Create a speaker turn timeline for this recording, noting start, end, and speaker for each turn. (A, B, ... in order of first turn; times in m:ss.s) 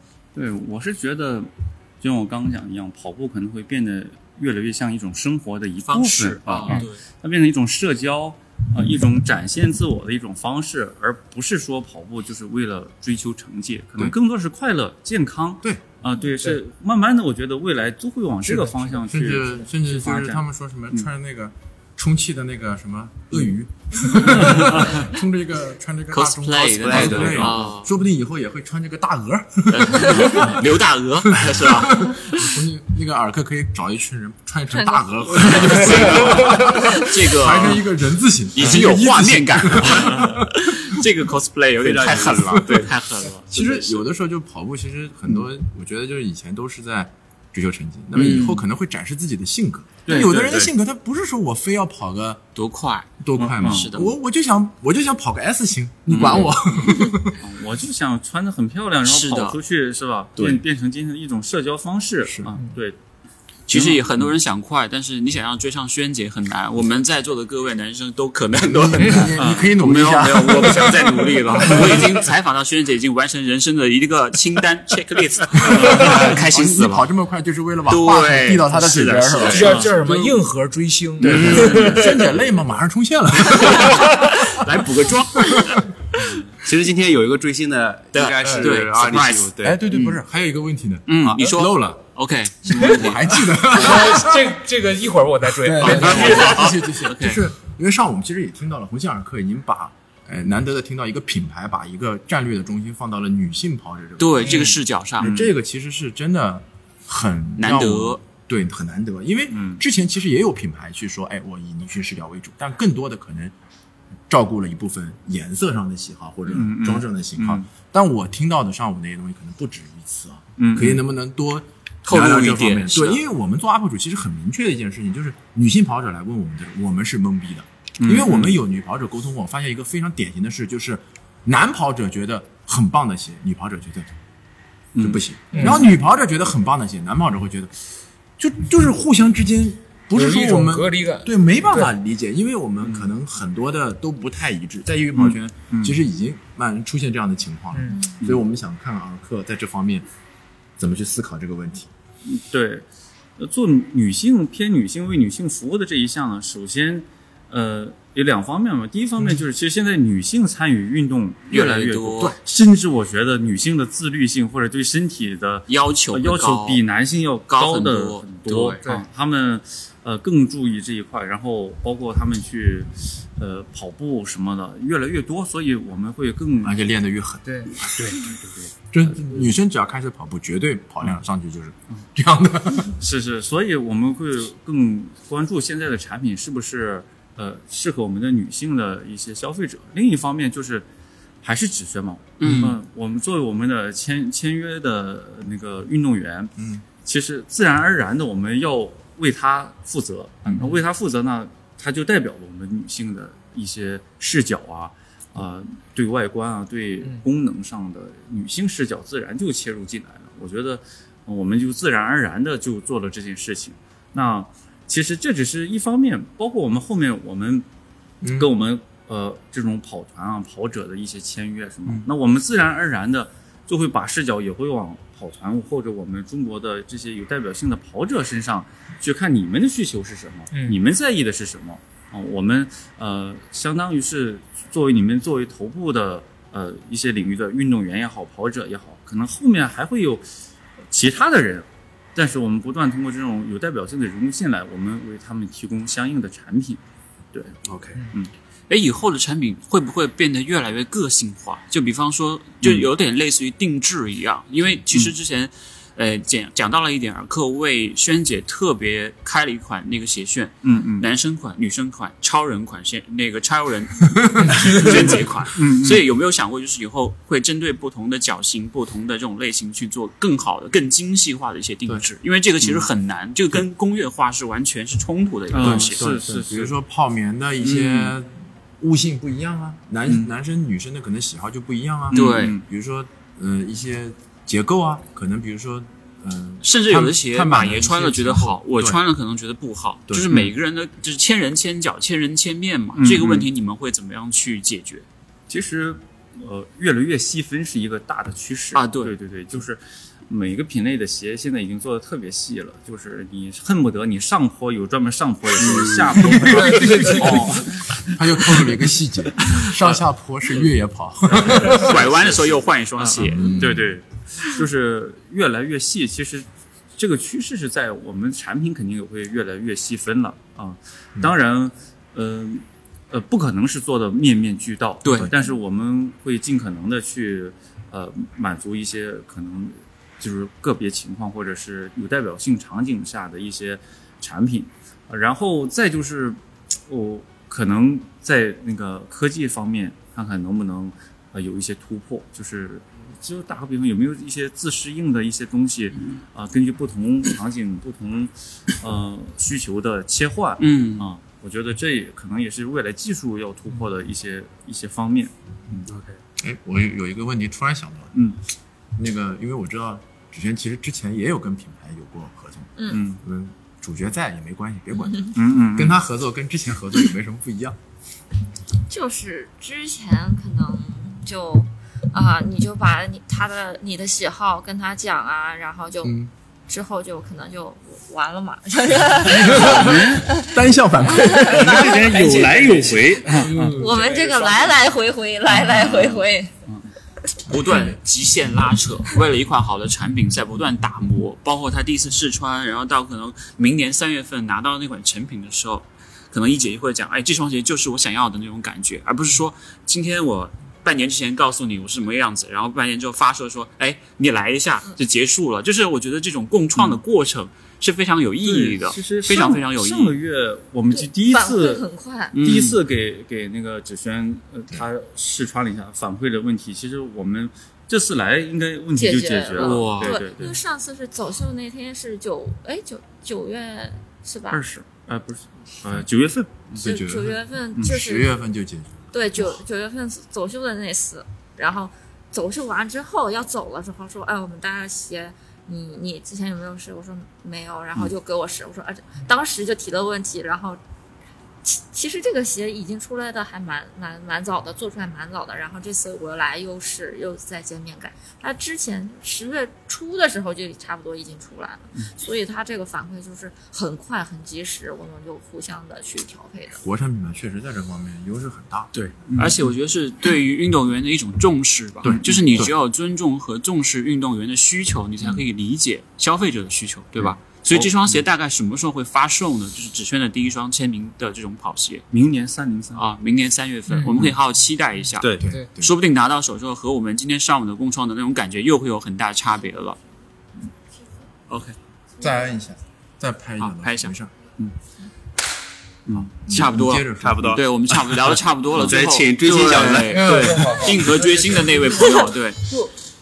0:00.3-0:21.1 A
0:05.9-0:07.0 B
0:18.4-0:19.0 C
0:19.1-0:30.7 D
0:24.2-0:25.1 A
0:26.1-0:27.9 B
0:27.0-0:27.6 A
0:27.2-0:27.4 E
0:29.7-0:32.5 B
0:31.3-0:41.0 D
0:34.7-0:36.8 F
0:35.6-0:37.9 B
0:38.5-0:44.0 B
0:40.1-0:40.4 A
0:41.9-0:42.6 E
0:42.3-0:42.9 D
0:43.5-0:52.4 D
0:48.1-0:48.6 B
0:50.0-0:50.7 A
0:52.5-0:54.1 B
0:53.2-0:57.4 D
0:53.4-0:53.9 A
0:56.1-0:56.5 B
0:56.1-0:56.5 A
0:57.4-1:03.0 A
0:59.0-0:59.6 B
1:02.2-1:02.5 D
1:03.7-1:17.1 B
1:03.7-1:04.1 A
1:08.6-1:12.1 D
1:09.4-1:09.7 A
1:15.6-1:20.3 D
1:17.9-1:19.9 B
1:19.4-1:22.2 C
1:21.2-1:22.1 B
1:21.2-1:25.8 D
1:23.6-1:25.8 B
1:26.6-1:29.8 E
1:28.1-1:30.2 B
1:29.6-1:32.0 D
1:31.1-1:33.6 B
1:32.7-1:34.6 D
1:33.7-1:36.8 C
1:35.6-1:53.5 D
1:35.8-1:37.4 B
1:44.2-1:45.3 B
1:44.4-1:44.8 C
1:45.2-1:45.5 A
1:47.6-1:48.2 B
1:49.5-1:49.8 A
1:54.3-2:14.1 D
1:56.5-1:57.6 A
2:00.6-2:01.0 A
2:02.0-2:03.2 B
2:08.0-2:08.6 A
2:14.9-2:15.8 A
2:15.0-2:17.7 D
2:15.5-2:15.9 C
2:18.4-2:30.0 D
2:20.1-2:21.9 C
2:25.2-2:26.0 A
2:27.7-2:28.0 C
2:27.9-2:28.2 F
2:30.8-2:31.9 D
2:32.2-2:32.9 A
2:33.4-2:56.8 A
2:41.5-2:42.3 B
2:45.7-2:46.8 B
2:47.5-2:48.8 B
2:56.6-2:58.2 D
2:57.4-2:57.7 C
2:57.8-2:59.5 A
2:58.9-3:03.0 D
3:02.8-3:10.8 A
3:11.4-3:37.6 A
3:12.4-3:12.8 B
3:16.6-3:16.8 D
3:38.2-3:38.5 D
3:38.3-4:00.2 A
3:50.5-3:50.8 C
4:00.9-4:06.8 A
4:07.6-4:08.0 E
4:08.7-4:36.0 B
4:12.6-4:12.9 A
4:20.6-4:21.1 A
4:24.6-4:26.0 A
4:35.5-4:36.7 A
4:35.6-4:49.0 D
4:37.6-4:38.1 B
4:42.1-4:42.6 A
4:42.1-4:42.6 B
4:46.6-4:55.0 B
4:52.9-4:53.5 A
4:55.5-5:08.2 A
4:58.7-4:59.1 B
5:05.6-5:12.1 D
5:06.7-5:07.4 C
5:09.5-5:10.0 A
5:11.3-5:55.9 A
5:11.4-5:13.7 B
5:13.2-5:14.0 D
5:25.0-5:25.3 B
5:50.6-5:51.1 B
5:56.4-5:58.1 D
5:59.0-6:07.8 D
6:02.9-6:03.2 A
6:05.2-6:06.0 A
6:08.9-6:20.5 F
6:16.0-6:16.3 D
6:19.1-6:20.4 A
6:19.5-6:24.0 D
6:21.0-6:22.5 F
6:21.3-6:24.0 A
6:22.2-6:22.9 B
6:23.7-6:26.5 F
6:25.5-6:26.9 A
6:27.5-6:50.2 B
6:27.6-6:28.0 D
6:48.4-6:51.8 A
6:50.9-6:52.3 F
6:52.3-6:52.8 B
6:52.4-7:00.6 A
6:58.9-7:04.6 F
6:59.6-7:00.2 B
7:04.5-7:06.9 A
7:06.7-7:09.6 D
7:06.8-7:08.3 F
7:09.1-7:20.8 F
7:21.6-7:36.8 F
7:36.8-7:38.9 D
7:38.9-7:52.1 B
7:39.3-7:39.6 A
7:42.0-7:42.7 D
7:42.0-7:42.3 A
7:47.7-7:48.2 A
7:52.1-7:53.0 A
7:52.9-8:00.0 B
7:53.9-7:54.3 C
7:55.2-7:55.5 E
7:55.4-7:55.9 D
8:01.5-8:01.8 B
8:02.2-8:04.3 D
8:03.6-8:04.1 B
8:06.1-8:06.4 A
8:06.1-8:07.6 D
8:06.4-8:12.6 B
8:07.2-8:07.6 E
8:08.7-8:10.5 E
8:10.1-8:12.9 C